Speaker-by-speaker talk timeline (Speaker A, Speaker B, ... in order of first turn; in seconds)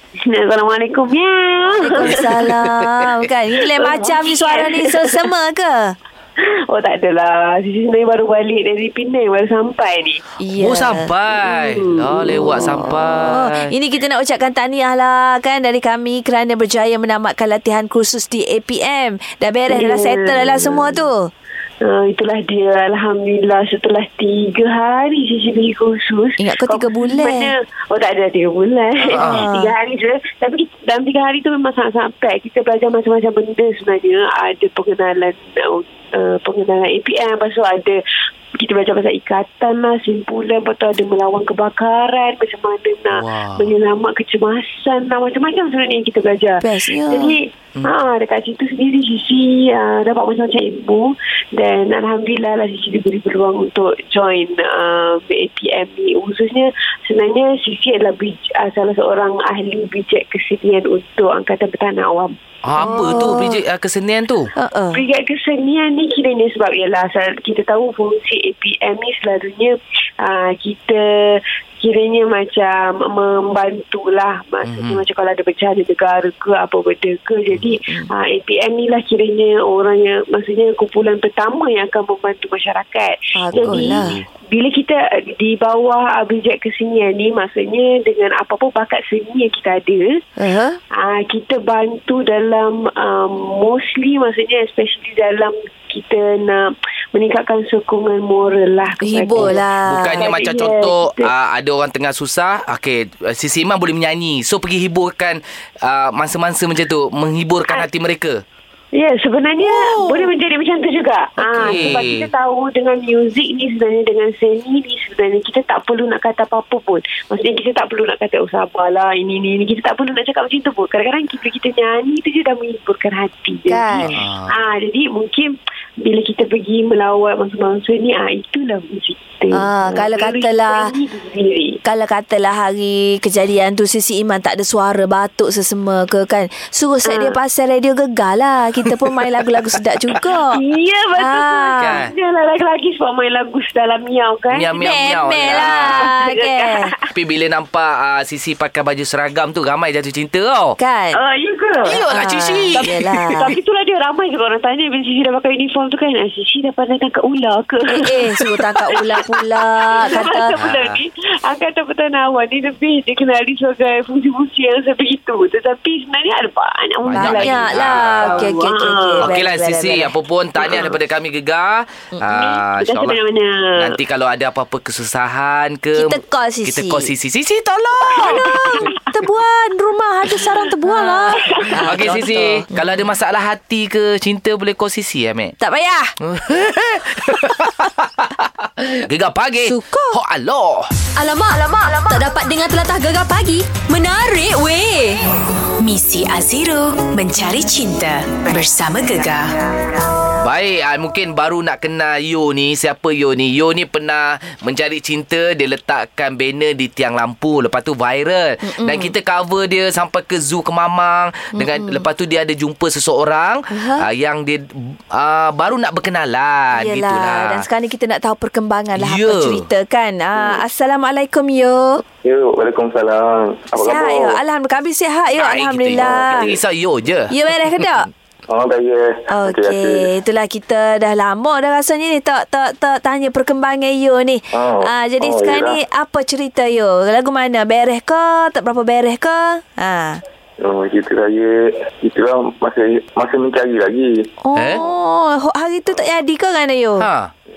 Speaker A: 0.2-2.5, 3.6-5.3, 6.4-10.2, 11.4-12.8, 19.7-21.0, 21.8-38.0, 38.6-62.3, 64.9-90.2, 91.0-101.3, 108.9-131.8, 137.1-137.4, 140.5-147.1, 151.2-152.1, 152.7-169.3, 170.6-171.0, 172.3-173.9, 178.0-179.2, 180.3-182.5
Speaker B: 1.8-6.0, 10.4-11.1, 12.5-21.3, 26.4-27.5, 29.1-29.8, 46.6-47.4, 62.8-63.6, 64.6-65.0, 83.4-84.2, 90.4-90.8, 99.0-100.3, 111.6-111.8, 123.7-124.2, 129.5-130.9, 131.8-140.6, 141.2-142.0, 144.7-146.9, 150.8-151.2, 152.1-153.5, 157.9-160.5, 167.2-170.1, 175.9-177.1, 178.2-183.1, 185.6-186.1, 189.7-190.2, 208.6-209.1, 211.6-212.0, 213.7-214.1, 216.7-222.0, 223.8-226.5, 227.3-228.1, 229.3-240.2, 244.4-247.1
Speaker C: 2.0-3.1, 10.6-13.7, 29.1-29.5, 43.1-43.7, 62.7-64.5, 74.7-75.0, 83.5-84.2, 99.3-108.4, 109.6-110.3, 111.4-112.3, 124.0-124.5, 141.8-142.1, 144.5-146.2, 147.1-150.8, 151.8-153.6, 160.2-161.0, 167.0-168.6, 169.2-173.2, 173.8-178.8, 181.8-185.5, 186.2-190.9, 200.4-217.7, 218.9-219.7, 225.4-227.3, 244.6-244.8, 247.0-247.3
Speaker D: 191.2-195.2
Speaker E: 195.8-199.5
Speaker F: 222.2-224.4, 226.0-226.5, 228.5-230.1, 234.5-235.8, 240.6-244.3